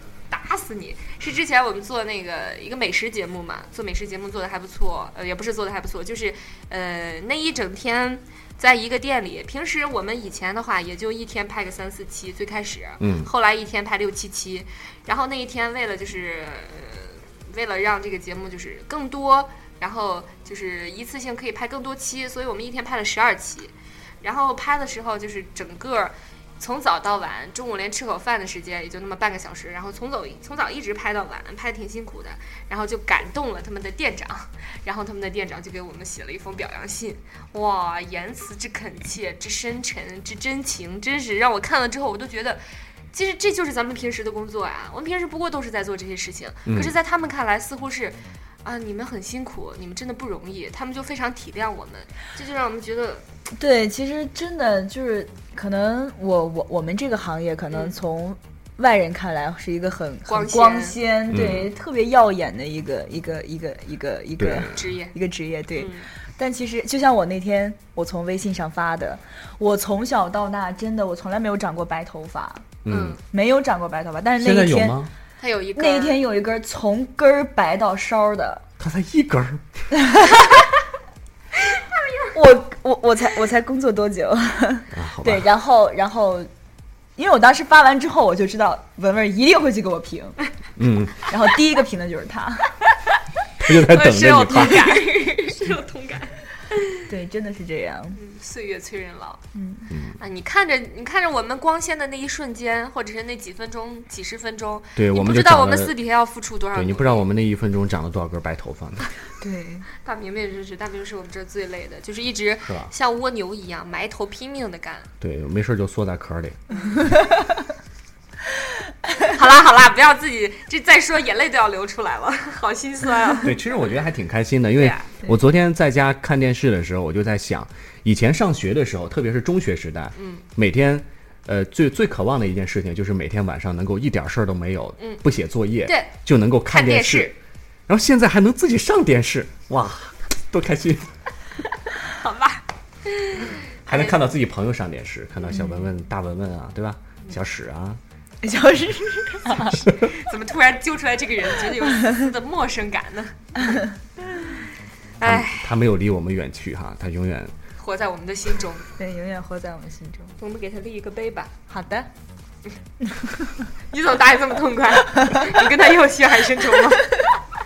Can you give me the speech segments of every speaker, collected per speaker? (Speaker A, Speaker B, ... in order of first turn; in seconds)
Speaker A: 0.3-53.2, 60.3-61.0, 64.7-65.1, 65.8-66.1, 72.9-73.2, 75.4-76.2, 81.9-82.3, 92.9-97.0, 98.1-99.4, 100.2-107.2, 110.0-115.1, 116.7-117.0, 119.3-123.6, 124.8-125.1, 130.2-130.4, 135.0-135.2, 135.8-136.1, 136.7-137.3, 142.1-144.2, 150.0-153.8, 155.2-155.7, 157.8-158.9, 160.4-161.5, 163.9-167.1
Speaker B: 13.0-13.3, 46.6-46.9, 61.3-61.7, 64.4-64.7, 72.8-73.2, 74.4-75.1, 78.8-79.8, 84.9-85.5, 90.8-91.3, 93.6-94.9, 99.9-100.2, 105.0-105.9, 106.7-109.1, 112.6-112.9, 115.2-116.6, 123.4-137.3, 137.9-141.1, 143.8-148.0, 149.8-150.1, 155.2-157.5
Speaker C: 53.6-72.8, 73.3-75.0, 75.8-78.6, 79.9-80.4, 82.3-86.5, 87.2-90.4, 91.2-92.7, 97.0-98.2, 99.5-99.9, 109.4-109.8, 145.5-145.8, 148.4-149.8, 159.0-160.3, 161.7-162.1, 163.1-163.5